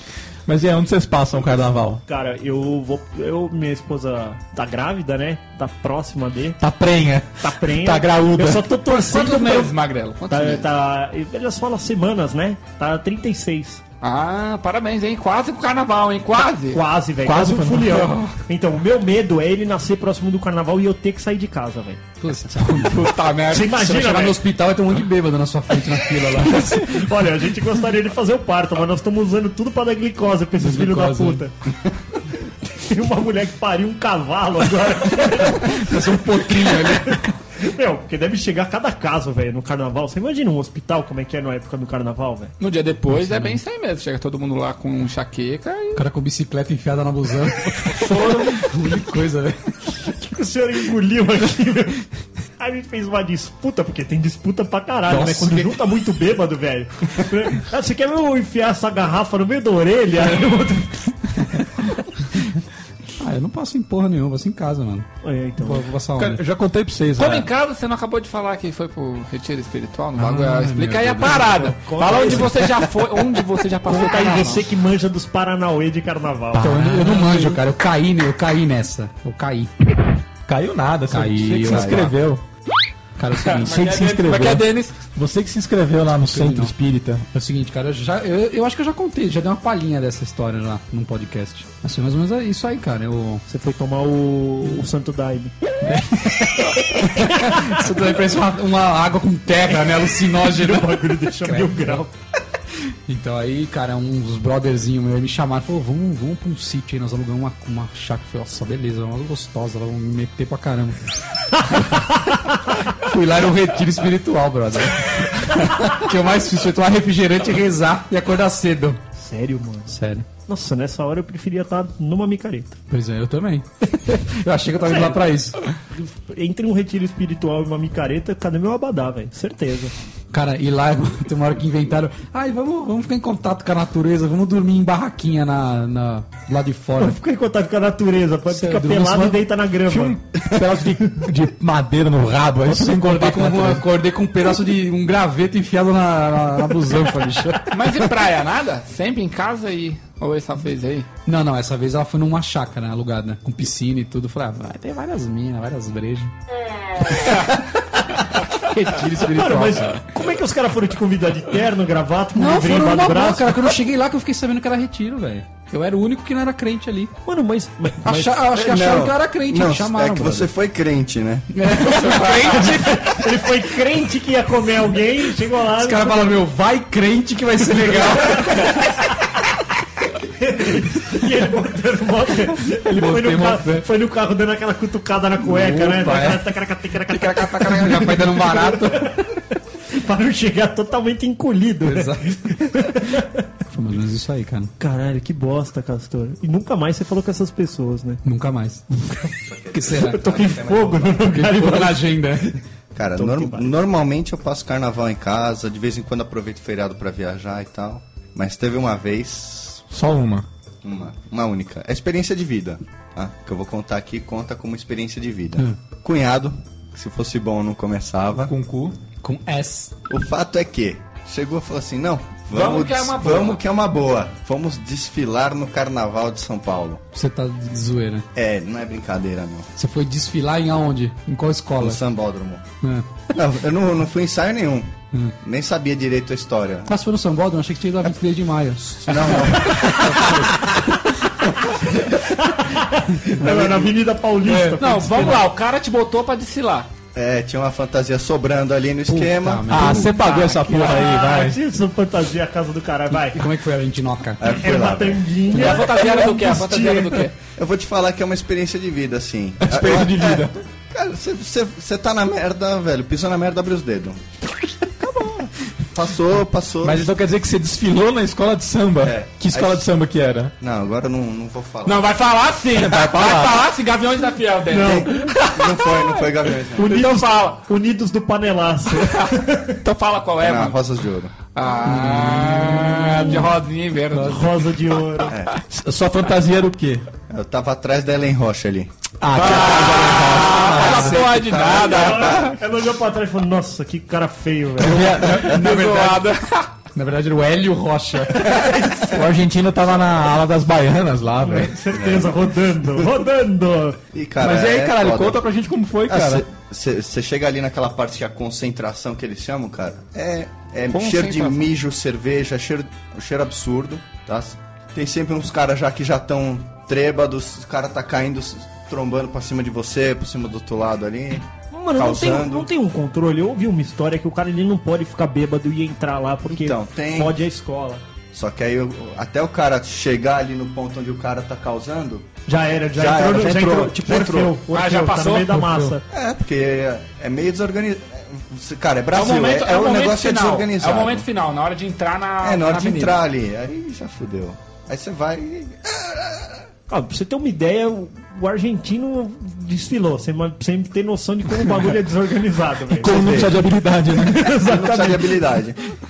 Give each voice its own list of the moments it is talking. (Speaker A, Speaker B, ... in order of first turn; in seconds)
Speaker A: 0.5-2.0, 6.6-8.7, 17.2-18.1, 66.2-67.5, 76.5-77.5, 80.5-82.4, 83.6-87.2, 139.8-143.8, 209.9-210.5, 218.4-219.0, 249.7-251.6, 259.6-260.5, 266.8-270.5, 272.7-273.6, 285.7-287.1, 289.2-291.4, 294.8-295.6, 299.0-301.7, 304.4-306.4, 353.0-354.5
Speaker B: 2.1-6.6, 7.4-9.7, 10.3-13.8, 16.7-22.0, 23.5-24.4, 26.4-31.5, 32.7-36.0, 36.5-42.5, 48.1-48.4, 50.0-52.1, 52.6-61.9, 65.2-65.9, 71.8-72.8, 73.8-76.9, 93.5-95.5, 96.9-97.8, 100.4-102.1, 119.2-120.0, 120.5-122.8, 124.8-125.2, 125.9-129.9, 137.0-140.2, 159.3-163.7, 167.2-168.4, 172.0-176.4, 178.2-178.8, 180.2-189.4, 189.9-193.4, 194.8-198.2, 198.9-199.3, 199.9-202.1, 203.2-203.7, 242.0-245.4, 250.7-253.5, 254.6-257.3, 274.7-275.4, 276.7-279.8, 283.2-283.4, 284.2-285.4, 291.6-295.3, 298.5-299.0, 301.4-304.0, 321.7-328.0, 332.5-336.0, 346.9-353.4, 354.1-355.6
Speaker C: 8.8-10.7, 14.0-16.8, 17.9-18.3, 22.6-24.2, 42.6-46.0, 67.2-74.7, 83.5-84.9, 147.7-151.1, 171.8-172.7, 222.5-223.6, 244.5-246.9, 250.0-251.1, 255.5-257.3, 271.8-276.2, 276.8-277.6, 279.0-280.8, 281.5-284.6, 289.4-292.6, 295.4-296.7, 310.9-311.7, 334.7-335.6, 339.1-343.2
Speaker D: 22.2-26.9, 30.6-31.4, 35.6-37.3, 43.1-43.6, 45.9-49.7, 55.1-55.8, 63.2-65.1, 65.6-66.4, 70.2-72.4, 76.5-79.7, 81.1-82.1, 83.2-83.8, 86.3-86.7, 87.3-93.4, 95.8-102.0, 103.1-111.0, 112.9-119.0, 119.9-120.2, 122.9-125.6, 130.3-137.2, 138.5-139.4, 142.7-147.8, 151.2-156.3, 158.5-160.0, 162.3-167.1, 168.0-170.5, 171.5-173.3, 175.8-178.8, 182.8-183.8, 185.4-186.5, 187.1-189.2, 191.8-192.3, 193.7-194.7, 198.2-198.8, 199.7-200.2, 201.2-202.6, 219.2-219.9, 227.1-228.2, 229.8-232.0, 232.8-233.1, 236.9-240.7, 244.4-245.4, 249.1-250.1, 253.1-254.5, 281.8-283.5, 284.1-284.4, 295.2-296.3, 296.9-298.8, 335.5-335.9
Speaker E: 81.6-82.0, 168.5-171.5, 199.5-201.3, 202.9-209.8, 210.8-218.5, 220.1-227.0, 228.3-229.7, 231.8-232.6, 233.3-236.9, 239.1-240.4, 243.4-243.9, 247.1-249.9, 254.4-255.7, 257.6-264.2, 265.0-267.0, 269.0-269.8, 270.6-272.1, 274.8-277.0, 280.4-281.3, 285.3-285.6, 287.3-289.8, 290.9-292.5, 301.9-302.4, 304.1-305.4, 306.1-322.7, 326.5-327.3, 328.3-332.3, 332.9-334.6, 336.1-341.3, 342.4-346.6, 353.0-353.6, 354.6-355.8